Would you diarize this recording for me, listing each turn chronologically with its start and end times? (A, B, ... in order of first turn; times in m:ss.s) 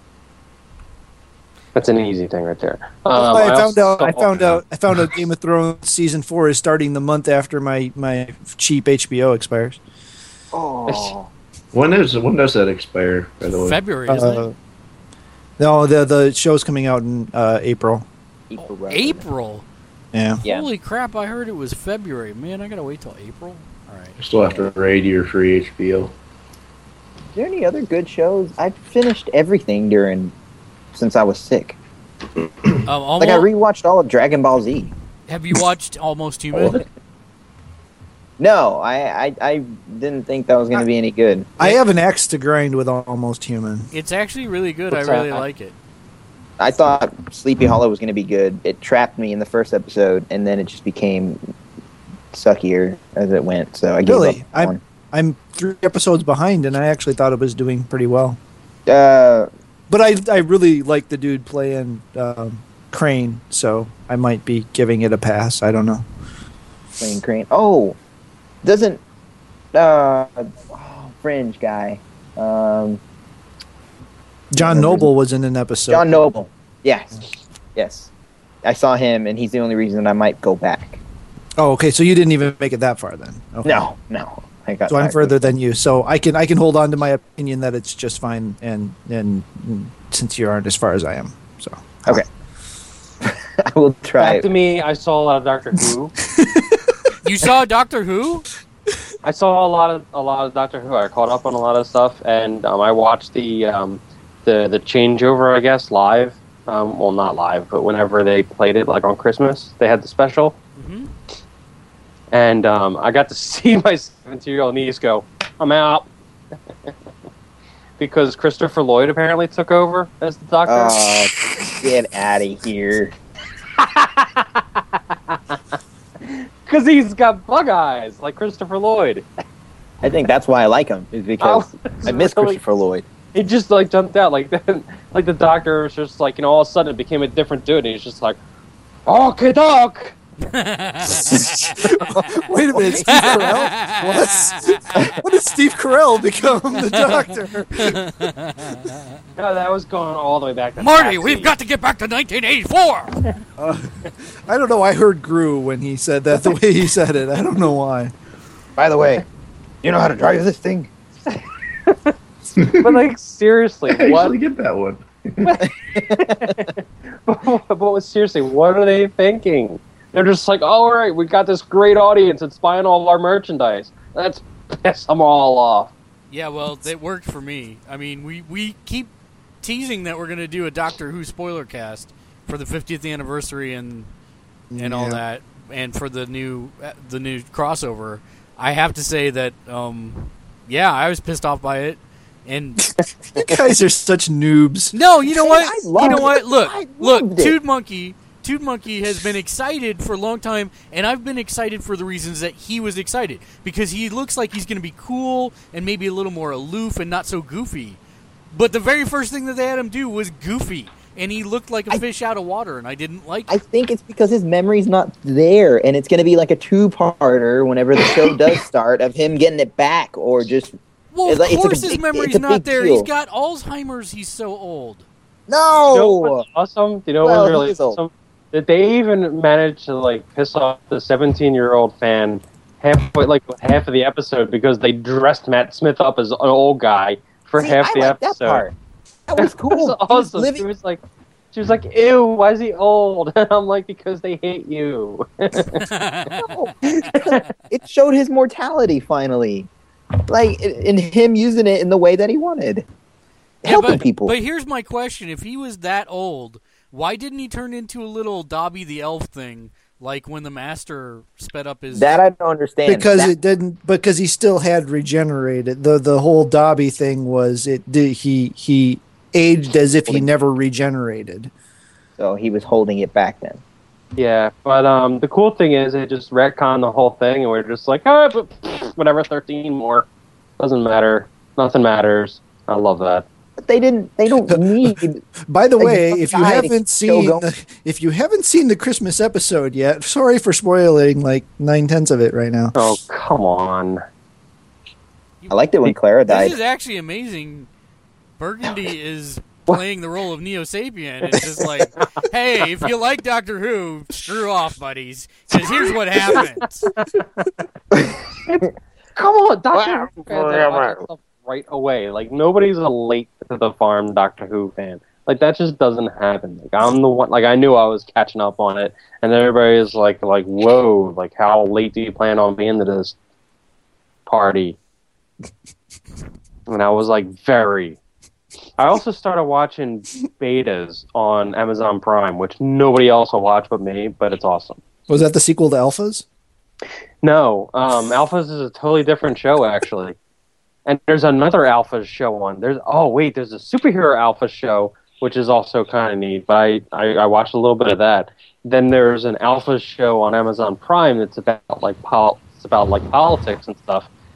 0:01.7-0:04.5 A
0:03.1-0:09.8 B
0:10.5-0:11.3 C
0:10.9-0:11.1 A
0:11.7-0:13.8 D
0:13.5-0:14.5 E
0:14.1-0:14.5 B
0:15.6-0:18.0 B
0:18.5-0:19.2 C
0:18.6-0:19.6 E
0:20.1-0:20.4 B
0:20.4-0:24.2 E
0:24.2-0:26.1 D
0:27.3-0:30.3 C
0:30.9-0:31.8 C
0:32.8-0:33.5 E
0:33.2-0:34.9 C
0:35.3-0:36.8 E
0:36.5-0:36.8 D
0:38.4-0:41.5 C
0:41.6-0:43.9 B
0:43.9-0:45.7 E
0:44.9-0:45.4 A
0:46.6-0:51.4 C
0:52.3-0:54.8 C
0:54.0-0:58.4 B
0:58.9-0:59.5 C
0:59.9-1:06.0 B
1:07.0-1:08.0 C
1:08.6-1:09.0 C
1:09.7-1:13.0 C
1:14.5-1:16.2 B
1:14.6-1:15.1 C
1:15.9-1:17.2 C
1:17.8-1:18.1 C
1:18.6-1:21.0 C
1:21.6-1:23.8 B
1:23.6-1:25.5 C
1:24.9-1:32.2 B
1:33.2-1:34.4 C
1:34.2-1:36.1 A
1:36.4-1:36.7 B
1:37.2-1:38.5 E
1:39.2-1:50.6 A
1:50.8-1:51.1 E
1:52.3-1:56.1 A
1:58.0-2:01.1 A
2:00.6-2:03.1 C
2:03.8-2:05.6 A
2:06.2-2:09.2 A
2:10.0-2:13.1 C
2:11.4-2:12.6 A
2:13.3-2:18.4 A
2:19.0-2:20.2 A
2:20.4-2:21.9 E
2:21.8-2:28.0 B
2:22.3-2:23.4 C
2:22.9-2:25.0 E
2:27.8-2:29.0 E
2:29.4-2:31.5 A
2:30.8-2:33.3 E
2:33.6-2:38.1 B
2:38.8-2:39.2 C
2:39.8-2:40.9 C
2:41.9-2:42.1 A
2:42.6-2:43.0 D
2:42.8-2:44.4 A
2:43.9-2:45.6 D
2:45.4-2:55.9 A
2:45.9-2:46.6 C
2:56.3-3:04.1 E
3:04.7-3:05.2 B
3:04.8-3:12.9 E
3:13.3-3:14.9 B
3:14.9-3:28.0 E
3:15.3-3:17.6 C
3:28.5-3:33.6 E
3:33.5-3:40.7 C
3:41.1-3:45.0 E
3:41.2-3:43.1 C
3:45.5-3:46.4 C
3:45.9-3:58.6 A
3:47.2-3:48.0 C
3:57.6-3:58.7 C
3:59.3-4:00.6 C
3:59.4-4:01.0 A
4:01.5-4:05.8 A
4:05.8-4:06.5 E
4:06.3-4:09.7 C
4:10.3-4:12.8 C
4:13.6-4:14.3 C
4:13.6-4:22.1 E
4:21.9-4:23.3 C
4:22.8-4:31.5 B
4:32.2-4:33.6 C
4:34.2-4:40.1 A
4:40.6-4:43.2 A
4:43.6-4:45.2 C
4:44.5-4:52.9 B
4:45.8-4:47.4 C
4:52.7-4:54.0 A
4:55.5-4:56.5 C
4:56.3-4:57.7 E
4:58.4-5:06.9 E
5:01.6-5:02.0 A
5:06.2-5:07.5 A
5:08.4-5:23.1 A
5:09.7-5:11.0 C
5:24.2-5:24.8 A
5:26.7-5:28.0 A
5:28.8-5:34.8 A
5:35.1-5:36.2 B
5:37.2-5:40.2 A
5:40.8-5:54.1 A